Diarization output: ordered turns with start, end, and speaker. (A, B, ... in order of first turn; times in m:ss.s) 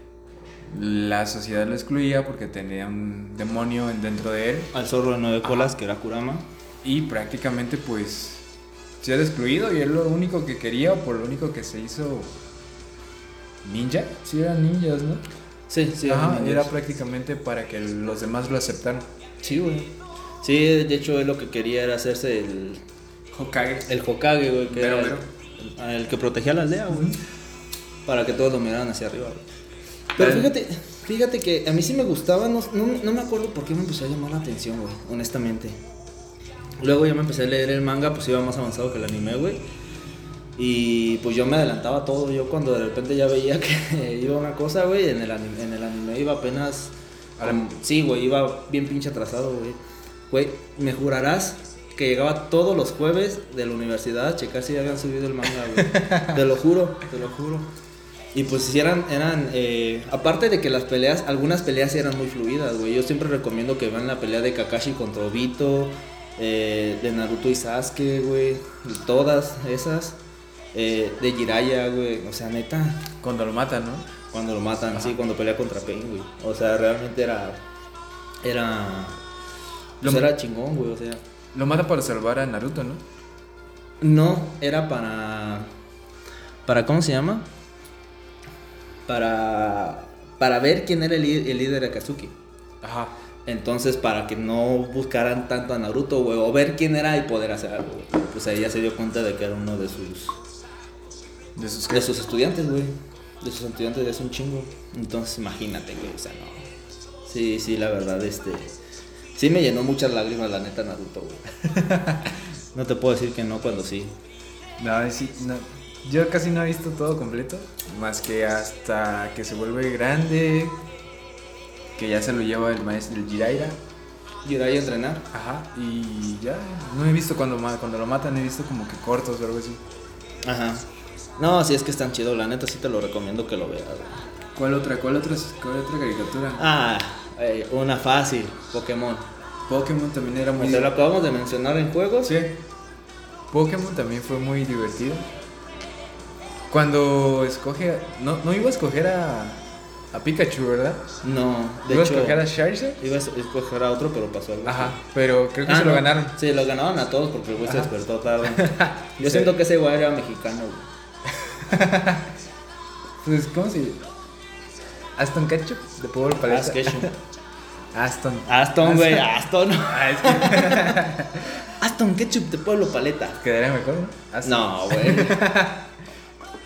0:00.7-0:04.7 A
0:04.7-0:06.4 B
0:05.4-0:05.7 A
0:06.8-0:08.5 A
0:09.0-0:12.3 A
0:13.6-0:15.2 A
0:15.7-0:16.7 B
0:16.0-0:19.1 A
0:19.4-0:19.9 B
0:20.4-0:22.8 B
0:23.3-0:24.0 A
0:23.9-0:27.2 B
0:24.7-0:25.3 A
0:28.1-0:29.4 B
0:30.2-0:35.8 B
0:30.2-0:30.5 A
0:36.8-0:39.6 B
0:40.6-0:49.8 B
0:47.4-0:47.6 A
0:50.3-0:57.7 B
0:55.7-0:56.4 A
0:58.3-1:10.2 B
1:10.7-1:13.1 B
1:13.2-1:14.1 A
1:14.3-1:17.6 B
1:18.4-1:19.2 B
1:20.0-1:20.3 A
1:20.0-1:21.2 B
1:21.5-1:23.0 A
1:24.0-1:25.7 B
1:26.7-1:27.5 B
1:29.1-1:32.4 B
1:32.8-1:33.2 A
1:33.5-1:40.4 B
1:41.6-1:42.1 A
1:41.9-1:46.7 B
1:47.3-1:48.8 B
1:49.4-1:51.4 B
1:51.6-1:52.3 A
1:52.7-1:54.1 B
1:54.8-2:00.8 A
2:02.0-2:03.8 A
2:04.4-2:05.2 B
2:05.3-2:09.8 A
2:10.4-2:10.9 B
2:11.4-2:14.2 B
2:14.6-2:16.7 A
2:16.6-2:19.2 B
2:19.7-2:20.9 A
2:20.6-2:22.4 B
2:22.2-2:22.6 A
2:23.5-2:25.3 A
2:26.7-2:31.0 A
2:31.2-2:32.4 B
2:31.9-2:33.0 A
2:33.0-2:35.0 B
2:34.6-2:36.4 A
2:35.7-2:40.9 B
2:37.6-2:37.9 A
2:38.4-2:39.5 A
2:41.6-2:42.3 A
2:43.2-2:44.0 A
2:45.2-2:47.1 A
2:46.5-2:47.1 B
2:47.9-2:51.7 A
2:48.5-2:51.1 B
2:51.8-2:53.4 B
2:53.4-2:55.9 A
2:54.4-2:55.4 B